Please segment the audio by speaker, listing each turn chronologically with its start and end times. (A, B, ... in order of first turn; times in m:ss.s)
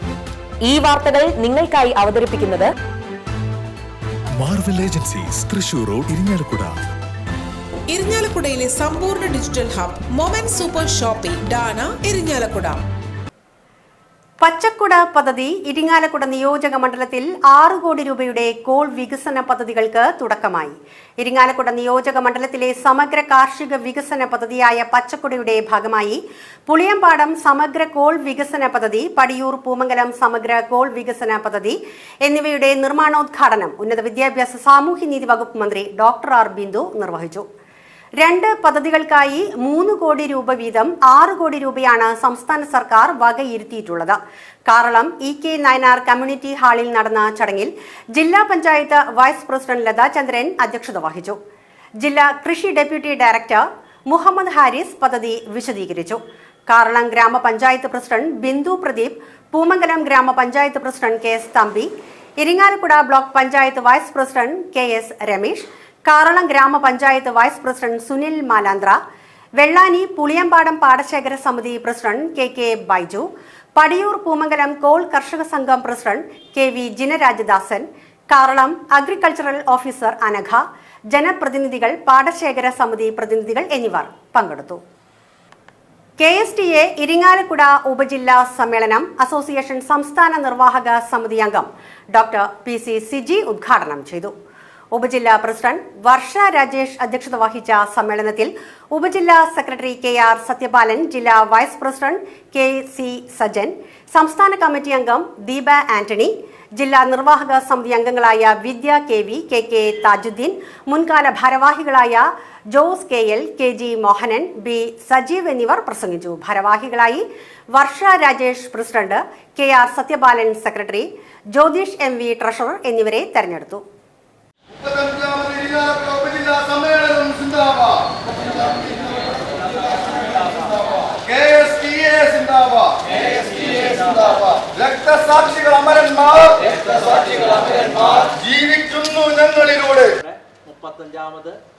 0:00.6-0:02.7 A
0:04.4-0:06.8 B
0:07.9-0:12.8 C
0:14.4-0:37.4 D
0:38.2-0:44.2 D
0:44.7-0:51.4 D
0:52.0-1:01.9 D
1:02.4-1:09.0 D
1:09.6-1:24.8 D
1:26.2-1:34.3 D
1:34.9-2:03.8 D
2:04.7-2:08.9 E
2:11.0-2:13.1 E
2:13.4-2:14.0 F
2:14.1-2:16.6 E
2:16.7-2:18.3 F
2:18.4-2:20.0 E
2:19.5-2:21.6 F